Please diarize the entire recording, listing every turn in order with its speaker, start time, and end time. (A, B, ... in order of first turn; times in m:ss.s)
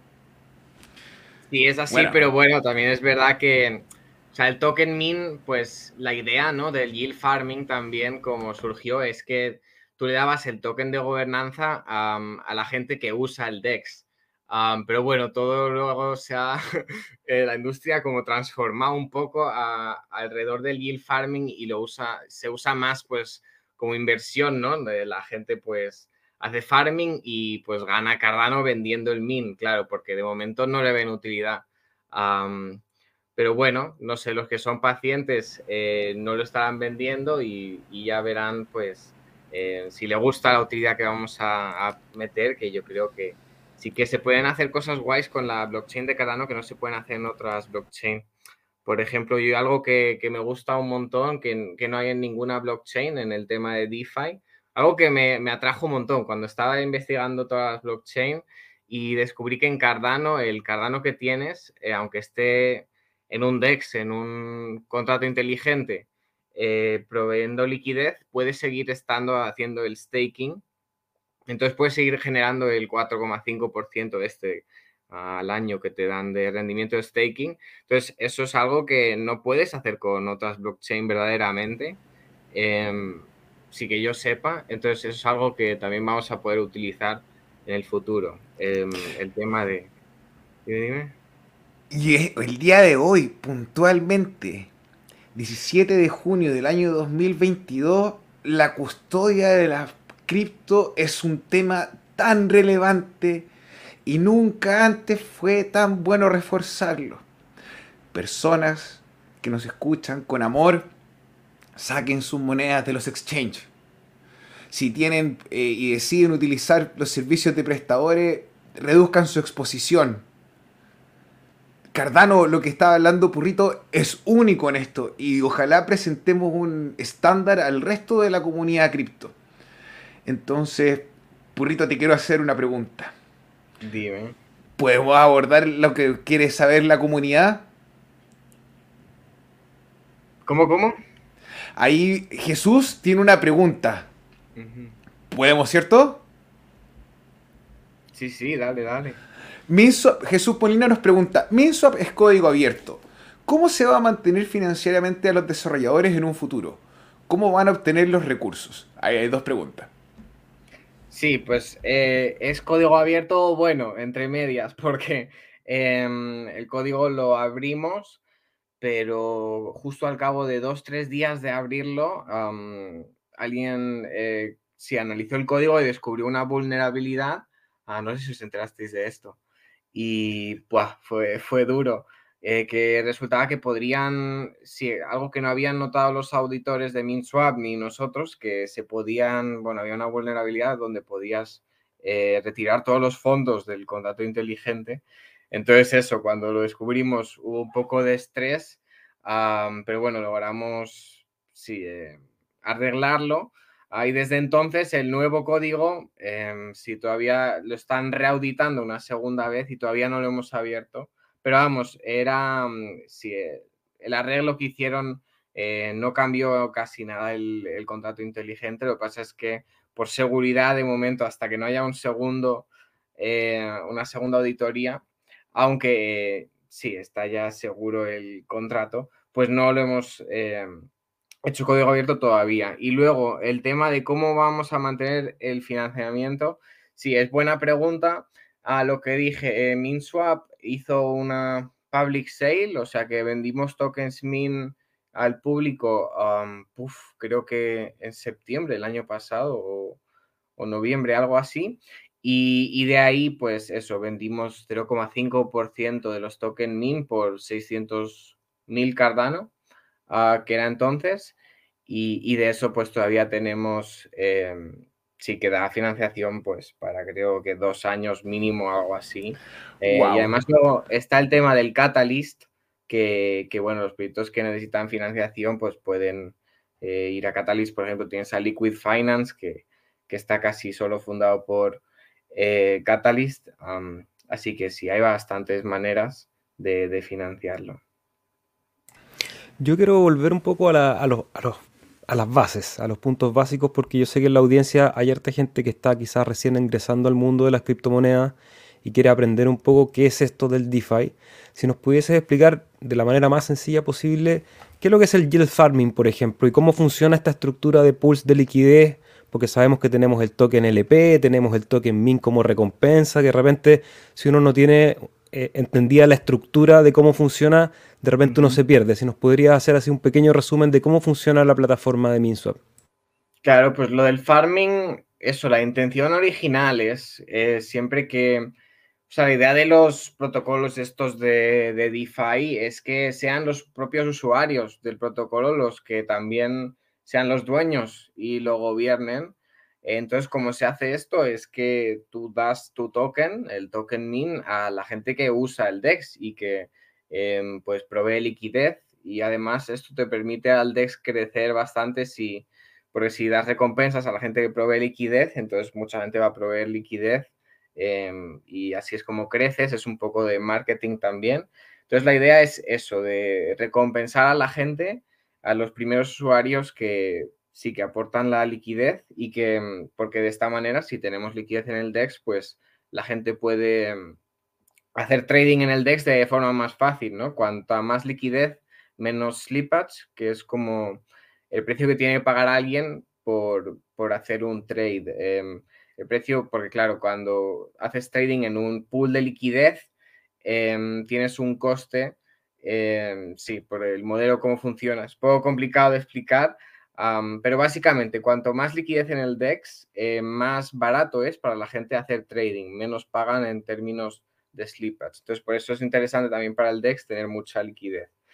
0:01.5-0:32.8 A
0:01.9-0:02.2 B
0:33.4-0:48.3 A
0:48.8-1:10.6 A
1:11.5-1:22.0 A
1:22.5-1:29.9 A
1:30.6-1:31.1 A
1:31.9-1:34.7 B
1:35.3-1:43.5 B
1:44.0-1:47.2 B
1:48.1-1:50.9 B
1:51.8-1:53.7 B
1:54.7-2:00.2 B
2:01.9-2:09.3 B
2:10.2-2:13.1 B
2:13.8-2:14.4 A
2:14.8-2:17.7 B
2:20.4-2:21.0 A
2:21.8-2:24.1 B
2:24.6-2:25.0 A
2:25.3-2:26.2 B
2:28.1-2:29.2 A
2:29.7-2:39.9 B
2:41.1-2:48.2 A
2:48.8-2:59.4 A
2:59.9-3:45.0 A
3:45.5-3:50.8 A
3:51.4-4:10.0 A
4:10.6-4:19.5 A
4:20.1-4:47.8 A
4:29.8-4:30.3 B
4:49.6-5:22.6 C
5:18.2-5:18.6 A
5:23.4-5:28.5 A
5:29.1-6:14.2 A
6:14.9-6:29.9 A
6:30.4-6:48.1 A